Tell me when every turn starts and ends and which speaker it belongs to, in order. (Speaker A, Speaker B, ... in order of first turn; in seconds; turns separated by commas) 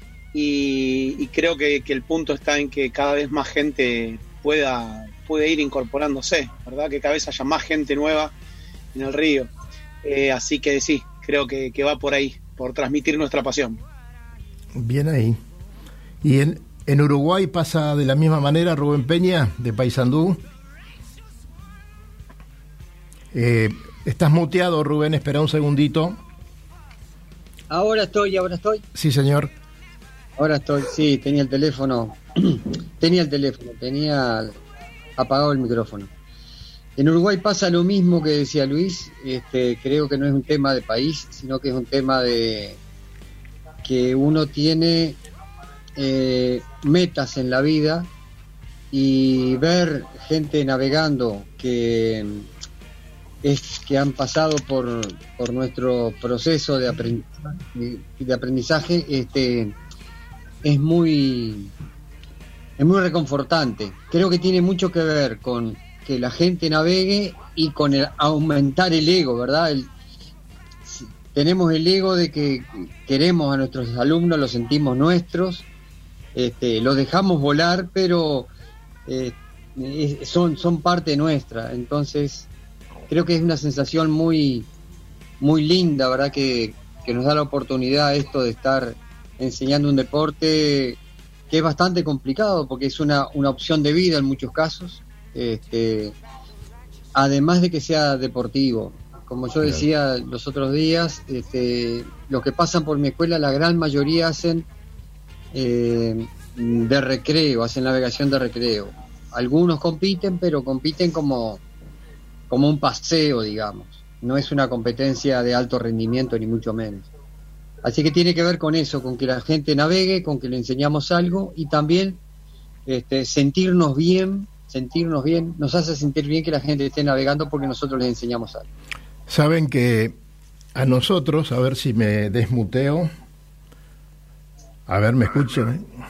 Speaker A: 0.3-8.3, Speaker A: 8.9-9.5, Speaker A: 10.0-13.8, Speaker B: 14.7-15.4, Speaker B: 16.2-20.4, Speaker B: 23.3-26.2, Speaker C: 27.7-28.8, Speaker B: 28.9-29.5, Speaker C: 30.4-34.5, Speaker C: 35.2-36.1, Speaker C: 37.0-42.8, Speaker C: 43.8-45.2, Speaker C: 46.0-48.1, Speaker C: 48.9-52.5, Speaker C: 53.4-59.7, Speaker C: 60.6-61.7, Speaker C: 62.8-69.9, Speaker C: 70.8-75.7, Speaker C: 76.3-78.5, Speaker C: 79.1-82.5, Speaker C: 83.1-84.7, Speaker C: 85.4-91.0, Speaker C: 91.5-96.1, Speaker C: 97.1-104.7, Speaker C: 105.5-111.6, Speaker C: 112.5-117.1, Speaker C: 117.8-122.2, Speaker C: 122.9-128.7, Speaker B: 129.3-130.1, Speaker B: 130.7-133.1, Speaker B: 134.9-135.9